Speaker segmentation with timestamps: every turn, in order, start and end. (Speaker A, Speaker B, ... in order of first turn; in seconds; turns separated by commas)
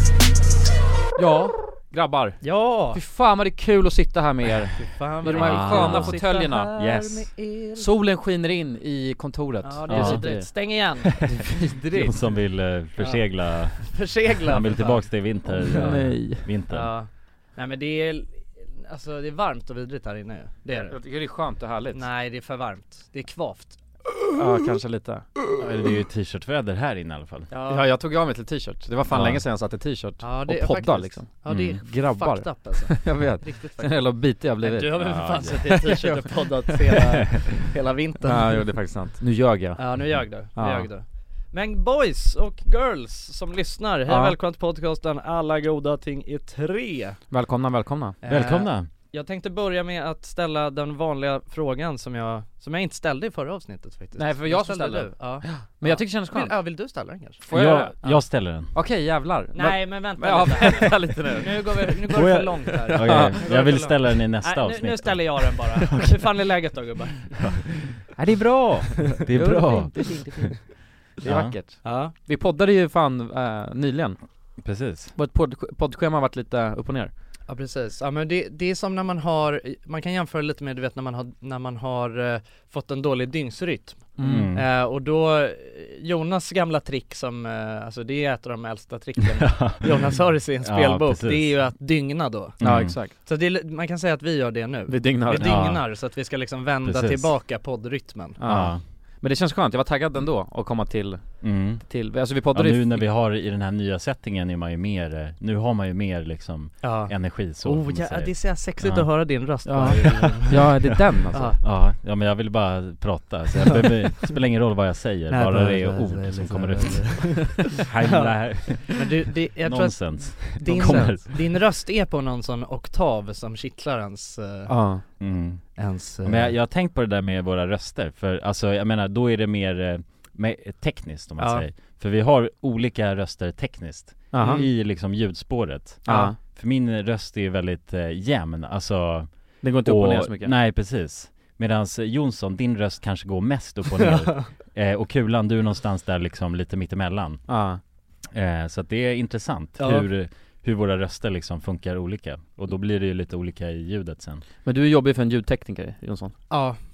Speaker A: 1.2-6.7, Speaker B: 2.4-3.0, Speaker B: 4.8-7.9, Speaker C: 5.3-6.2, Speaker C: 6.8-7.3, Speaker A: 7.8-12.1, Speaker B: 9.6-11.6, Speaker C: 9.9-10.3, Speaker C: 11.9-16.9, Speaker B: 13.0-13.3, Speaker B: 13.8-15.9, Speaker A: 15.5-16.5, Speaker B: 16.7-21.0, Speaker A: 20.7-22.0, Speaker B: 21.9-23.8, Speaker A: 24.3-25.3, Speaker C: 25.6-27.5, Speaker B: 27.5-27.9, Speaker A: 27.7-36.7, Speaker C: 29.1-29.4, Speaker B: 30.2-38.7, Speaker C: 31.5-31.8, Speaker C: 35.0-35.6, Speaker A: 38.3-40.9, Speaker B: 39.8-47.2, Speaker A: 44.1-44.4, Speaker A: 47.3-48.2, Speaker B: 48.2-57.4, Speaker C: 48.3-48.9, Speaker A: 54.2-56.6, Speaker A: 57.4-61.5, Speaker C: 57.5-58.7, Speaker B: 59.5-67.5, Speaker C: 62.1-66.2, Speaker A: 63.0-63.4, Speaker C: 67.4-70.5, Speaker A: 69.4-70.5, Speaker B: 69.6-70.3, Speaker A: 71.2-74.2, Speaker C: 71.2-71.5, Speaker B: 71.8-72.1, Speaker C: 74.6-75.1, Speaker A: 75.2-77.1, Speaker B: 77.5-98.4, Speaker A: 84.2-84.5, Speaker C: 84.2-84.7, Speaker C: 89.4-91.5, Speaker C: 92.6-93.0, Speaker A: 92.6-93.1, Speaker A: 94.9-95.5, Speaker C: 95.3-95.8, Speaker C: 96.8-97.3, Speaker A: 98.4-103.0, Speaker C: 98.5-98.8, Speaker C: 101.4-109.1, Speaker B: 106.8-110.7, Speaker A: 109.7-111.6, Speaker B: 111.3-111.6, Speaker C: 111.6-121.6, Speaker B: 115.3-124.7, Speaker A: 120.7-121.0, Speaker A: 124.7-125.0, Speaker C: 125.2-147.5, Speaker B: 125.8-126.5, Speaker B: 131.4-131.7, Speaker A: 134.3-134.6, Speaker B: 134.4-134.7, Speaker A: 136.1-136.4, Speaker B: 136.1-136.3, Speaker A: 139.6-140.5, Speaker B: 144.0-144.5, Speaker A: 147.5-147.8, Speaker C: 148.3-154.4, Speaker B: 149.8-150.1, Speaker A: 154.7-156.5, Speaker B: 156.5-156.8